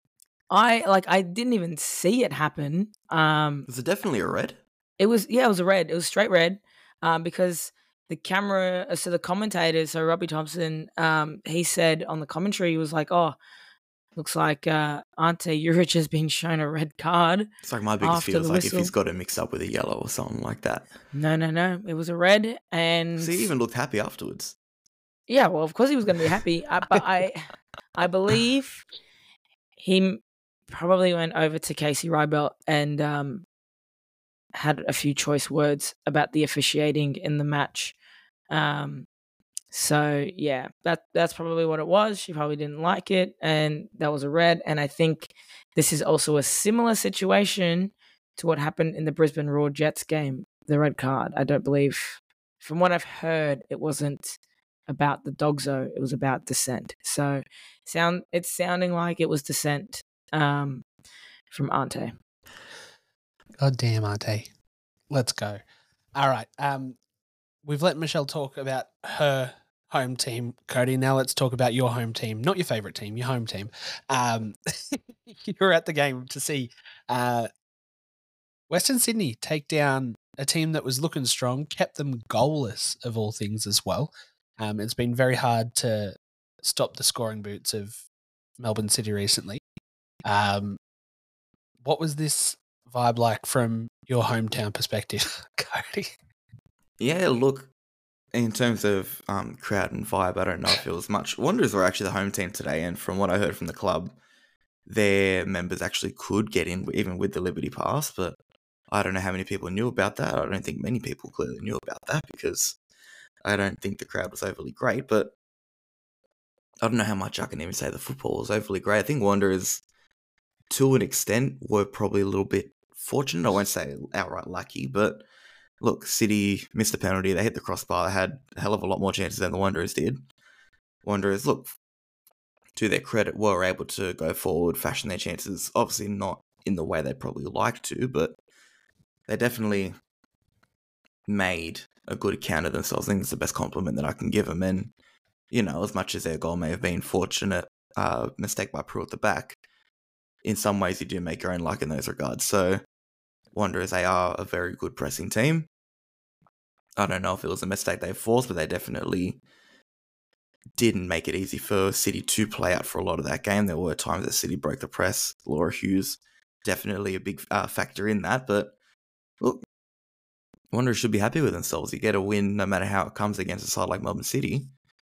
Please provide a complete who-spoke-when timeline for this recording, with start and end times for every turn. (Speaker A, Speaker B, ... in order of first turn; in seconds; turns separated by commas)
Speaker A: 0.5-3.7, Speaker B: 3.7-4.6, Speaker A: 5.0-13.4, Speaker A: 14.2-17.5, Speaker B: 17.6-20.9, Speaker A: 18.0-18.9, Speaker A: 21.1-23.5, Speaker B: 23.2-24.5, Speaker A: 25.3-28.9, Speaker A: 29.8-33.4, Speaker A: 34.5-38.0, Speaker A: 38.5-39.1, Speaker A: 39.7-54.4, Speaker A: 54.9-60.8, Speaker A: 61.5-62.1, Speaker C: 63.6-64.5, Speaker C: 65.1-65.6, Speaker C: 66.2-67.0, Speaker C: 67.6-77.5, Speaker C: 78.7-88.0, Speaker C: 88.6-89.6, Speaker C: 90.2-90.8, Speaker C: 91.8-96.1, Speaker B: 97.0-97.7, Speaker B: 98.3-104.2, Speaker B: 104.8-108.4, Speaker B: 108.9-112.8, Speaker B: 113.4-115.3, Speaker B: 116.8-119.8, Speaker B: 120.7-125.2, Speaker B: 125.8-130.2, Speaker B: 131.0-131.7, Speaker B: 132.7-138.4, Speaker B: 139.3-139.9, Speaker B: 141.3-144.9, Speaker B: 145.5-149.6, Speaker B: 150.4-152.8, Speaker B: 153.5-155.7, Speaker B: 157.0-159.4, Speaker B: 160.8-168.7, Speaker B: 170.7-174.7